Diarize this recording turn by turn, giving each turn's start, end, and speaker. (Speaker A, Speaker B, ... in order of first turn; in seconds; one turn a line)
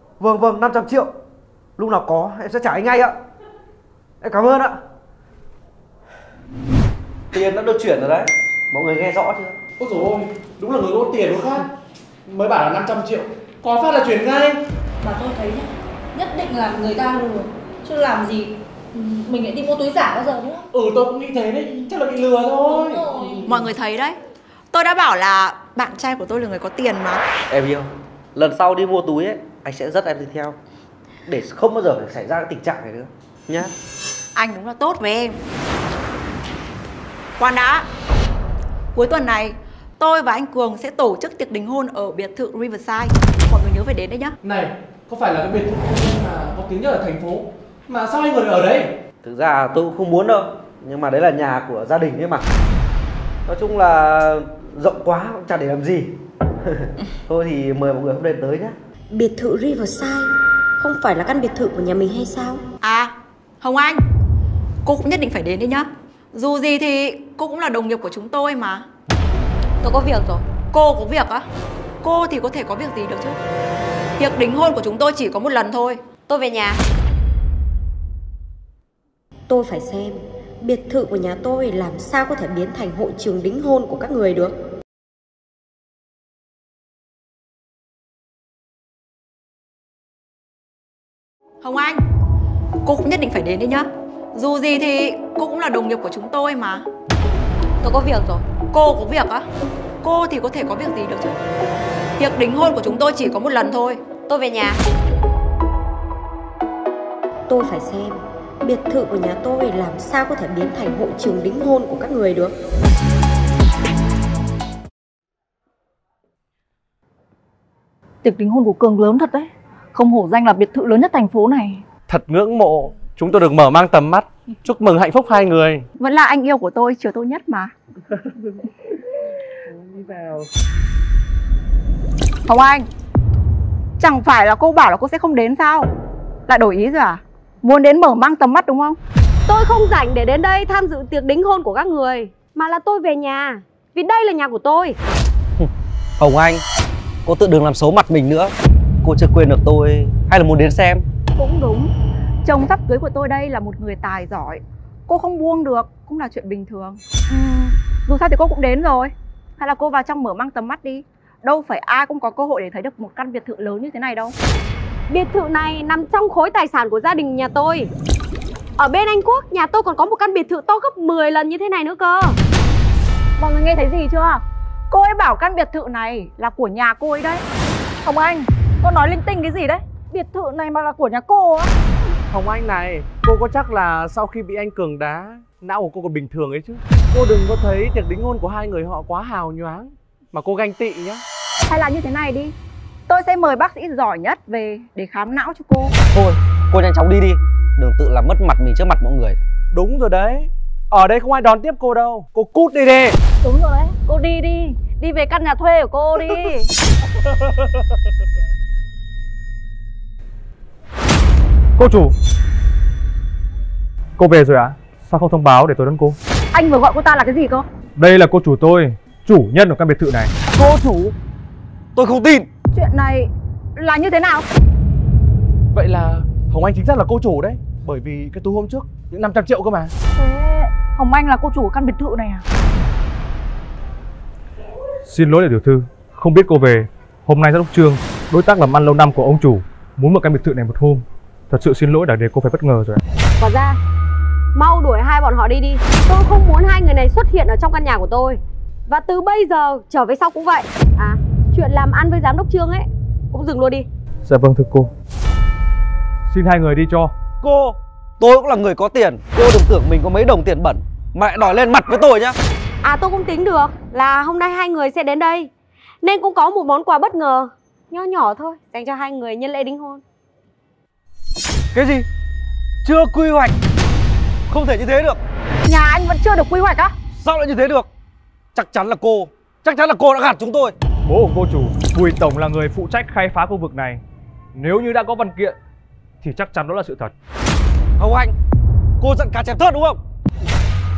Speaker A: 0.2-1.1
Speaker A: 1.8-3.1
Speaker A: 4.2-4.8
Speaker A: 7.3-9.6
Speaker B: 9.8-11.7
Speaker B: 12.3-14.6
Speaker C: 15.0-20.6
Speaker B: 20.7-23.0
Speaker C: 22.6-23.6
Speaker D: 23.4-24.2
Speaker D: 24.7-27.2
Speaker A: 27.5-30.6
Speaker A: 31.2-33.7
Speaker D: 34.3-35.4
Speaker D: 37.4-37.8
Speaker D: 38.9-44.3
Speaker B: 44.4-48.9
Speaker A: 49.2-52.5
Speaker A: 53.5-58.8
Speaker E: 59.1-62.6
Speaker D: 62.8-64.0
Speaker D: 64.8-68.8
Speaker F: 69.8-70.4
Speaker D: 70.7-71.4
Speaker D: 72.0-73.4
Speaker D: 74.2-76.0
Speaker F: 76.3-76.8
Speaker E: 79.5-84.5
Speaker D: 91.6-92.0
Speaker D: 92.8-96.8
Speaker F: 97.8-98.4
Speaker D: 98.7-99.4
Speaker D: 100.0-101.4
Speaker D: 102.2-104.0
Speaker F: 104.3-104.8
Speaker E: 107.5-112.5
Speaker C: 118.2-121.8
Speaker B: 122.1-125.8
Speaker D: 126.0-127.7
Speaker B: 129.7-130.5
Speaker D: 132.4-132.8
Speaker D: 134.0-135.9
Speaker D: 136.5-139.0
Speaker F: 139.5-145.0
Speaker A: 145.6-146.6
Speaker A: 147.2-151.0
Speaker D: 151.4-151.9
Speaker D: 152.4-164.3
Speaker F: 165.1-167.9
Speaker F: 168.8-172.4
Speaker D: 173.4-177.4
Speaker C: 178.0-181.7
Speaker B: 182.3-191.2
Speaker D: 191.7-192.5
Speaker D: 193.1-195.9
Speaker A: 196.1-199.4
Speaker B: 199.7-203.2
Speaker C: 203.4-206.7
Speaker G: 211.8-212.1
Speaker G: 214.2-216.2
Speaker D: 216.5-217.6
Speaker G: 218.0-220.3
Speaker A: 220.6-221.1
Speaker A: 221.9-222.5
Speaker D: 222.7-224.4
Speaker B: 225.7-229.9
Speaker C: 230.2-232.4
Speaker G: 235.1-243.0
Speaker F: 243.4-243.8
Speaker F: 244.5-253.8
Speaker G: 254.2-254.9
Speaker G: 256.3-257.1
Speaker A: 257.4-262.4
Speaker F: 262.8-265.5
Speaker F: 266.0-270.0
Speaker A: 271.7-272.1
Speaker A: 272.8-273.5
Speaker A: 274.5-275.2
Speaker D: 275.6-276.9
Speaker A: 277.1-277.9
Speaker A: 278.5-280.7
Speaker G: 281.1-284.0
Speaker G: 284.5-285.6
Speaker G: 286.2-287.1
Speaker A: 288.0-288.3
Speaker A: 289.0-290.0